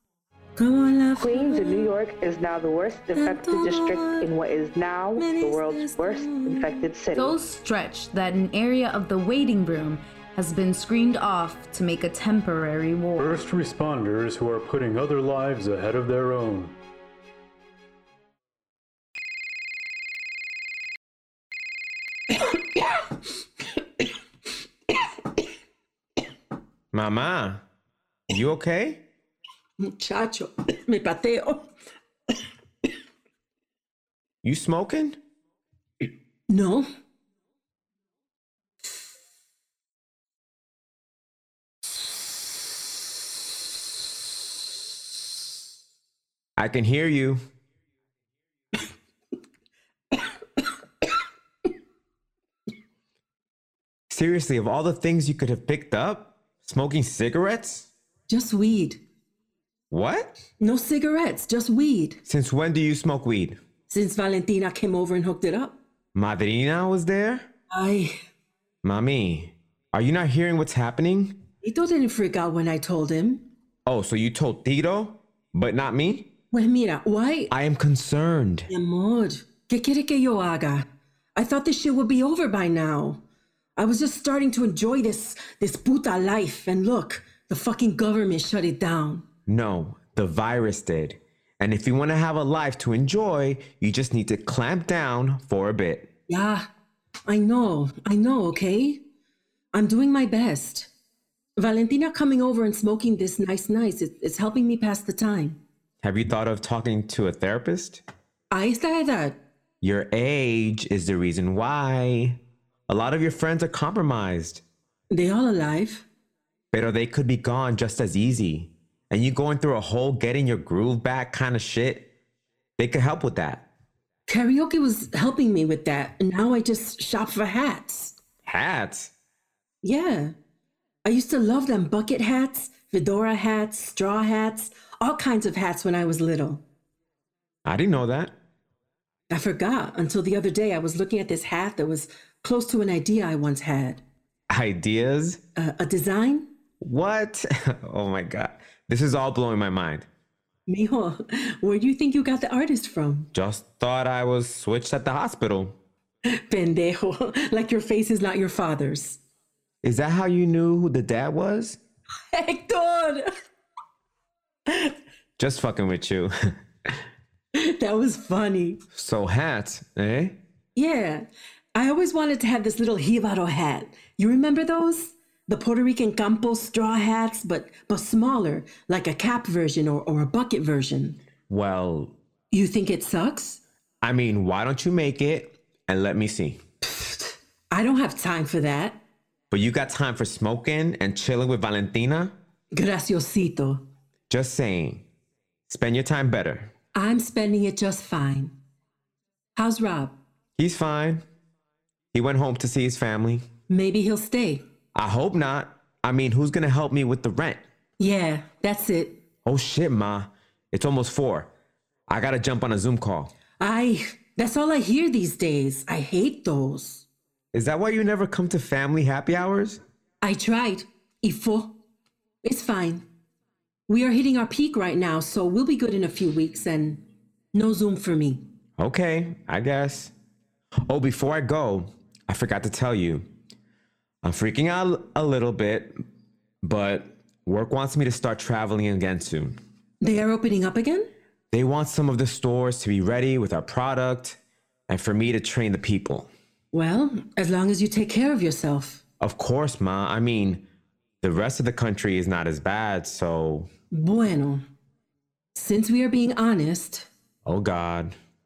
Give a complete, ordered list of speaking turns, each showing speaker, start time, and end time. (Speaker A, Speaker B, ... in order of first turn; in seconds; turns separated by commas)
Speaker A: 0.6-1.9, Speaker B: 1.2-7.3, Speaker A: 3.1-4.3, Speaker A: 5.2-6.9, Speaker C: 7.1-13.3, Speaker D: 13.2-16.8, Speaker A: 22.4-23.1, Speaker E: 26.9-27.6, Speaker E: 28.3-29.0, Speaker A: 29.8-31.7, Speaker E: 34.4-35.2, Speaker A: 36.5-36.9, Speaker E: 46.6-47.4, Speaker E: 54.1-57.9, Speaker A: 58.3-59.0, Speaker E: 59.9-60.3, Speaker A: 60.6-62.2, Speaker E: 62.3-63.6, Speaker A: 63.9-65.8, Speaker E: 66.2-67.5, Speaker A: 67.7-68.2, Speaker E: 68.8-71.3, Speaker A: 71.6-73.4, Speaker E: 73.9-76.2, Speaker A: 76.5-77.5, Speaker E: 77.5-78.7, Speaker A: 78.7-80.8, Speaker A: 81.4-83.2, Speaker A: 83.8-89.2, Speaker E: 89.5-96.1, Speaker A: 96.3-96.7, Speaker A: 97.3-99.0, Speaker A: 99.7-100.9, Speaker A: 101.6-105.6, Speaker E: 106.0-108.0, Speaker A: 108.5-109.4, Speaker E: 109.8-114.6, Speaker A: 115.1-116.0, Speaker E: 116.7-122.0, Speaker E: 122.8-123.6, Speaker A: 124.3-128.2, Speaker E: 128.5-129.1, Speaker A: 129.8-130.3, Speaker A: 131.1-136.6, Speaker E: 137.7-138.3, Speaker A: 139.3-144.0, Speaker E: 144.5-145.4, Speaker A: 145.6-146.5, Speaker E: 146.8-150.1, Speaker A: 150.7-153.3, Speaker E: 153.3-155.8, Speaker A: 156.3-159.2, Speaker E: 159.8-161.8, Speaker A: 162.3-163.3, Speaker A: 164.7-164.9, Speaker E: 165.4-167.0, Speaker A: 167.5-168.8, Speaker E: 168.9-170.4, Speaker A: 170.8-181.2, Speaker E: 181.5-182.1, Speaker A: 182.5-183.6, Speaker E: 184.0-186.6, Speaker A: 186.8-189.0, Speaker E: 189.5-192.3, Speaker A: 192.7-193.8, Speaker E: 194.3-195.0, Speaker E: 195.7-196.7, Speaker A: 196.9-198.5, Speaker A: 199.6-200.2, Speaker E: 200.6-201.2, Speaker E: 202.1-203.4, Speaker A: 203.7-204.6, Speaker E: 204.9-207.6, Speaker A: 208.0-209.2, Speaker E: 209.4-211.5, Speaker E: 212.1-213.3, Speaker A: 213.6-217.0, Speaker E: 217.5-219.8, Speaker A: 220.2-221.7, Speaker A: 222.4-223.0, Speaker A: 223.9-227.0, Speaker A: 227.5-228.4, Speaker E: 228.8-230.1, Speaker E: 230.9-233.2, Speaker E: 234.2-235.9, Speaker E: 236.6-239.6, Speaker A: 240.0-241.1, Speaker E: 241.5-244.4, Speaker E: 244.9-246.3, Speaker A: 246.7-249.0, Speaker E: 249.2-250.6, Speaker E: 251.2-253.7, Speaker A: 253.9-254.6, Speaker A: 255.6-257.1, Speaker E: 257.4-258.1